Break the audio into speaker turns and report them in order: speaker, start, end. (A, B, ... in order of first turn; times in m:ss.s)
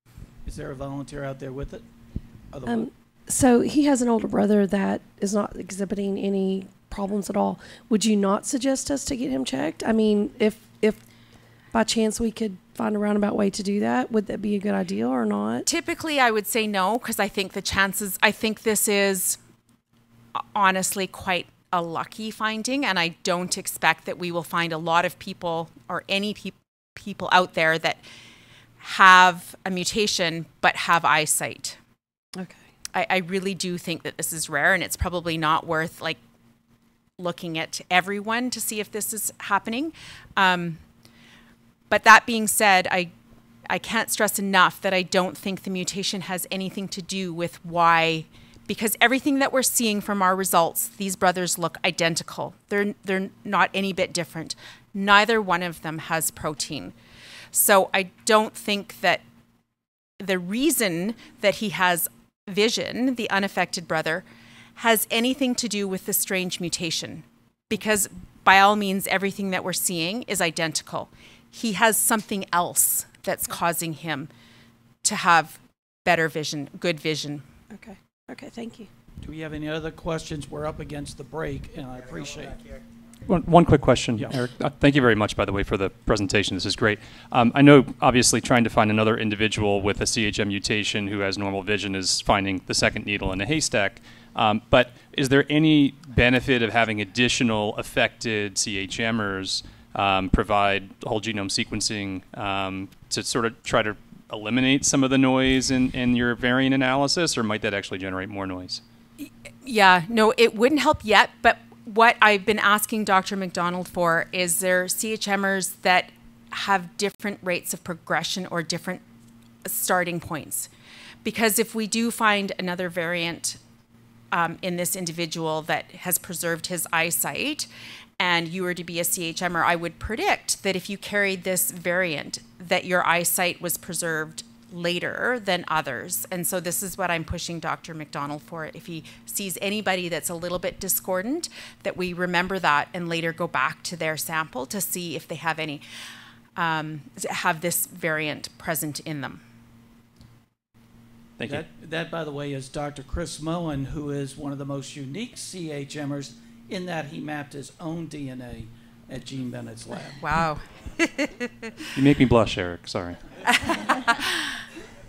0:00.4-0:01.8 A
0:02.5-0:02.9 A
0:02.6-0:11.1 B
0:11.7-0:15.6 B
0:15.6-0:19.4 C
0:20.3-0:28.0 C
0:28.8-0:31.8 C
0:32.9-0:36.2 C
0:37.2-0:40.8 C
0:41.9-0:43.1 C
0:43.6-0:56.9 C
0:57.5-0:59.2 C
1:00.2-1:04.2 C
1:04.8-1:14.3 C
1:15.0-1:17.4 C
1:17.8-1:18.9 B
1:19.2-1:22.8 A
1:23.2-1:48.8 D
1:24.2-1:24.4 A
1:49.2-1:59.0 C
1:59.6-2:00.7 C
2:01.2-2:03.6 C
2:04.3-2:25.8 C
2:26.6-2:29.4 C
2:31.4-2:31.6 D
2:31.4-2:40.2 A
2:40.2-2:41.8 C
2:41.9-2:43.2 D
2:43.5-2:44.1 C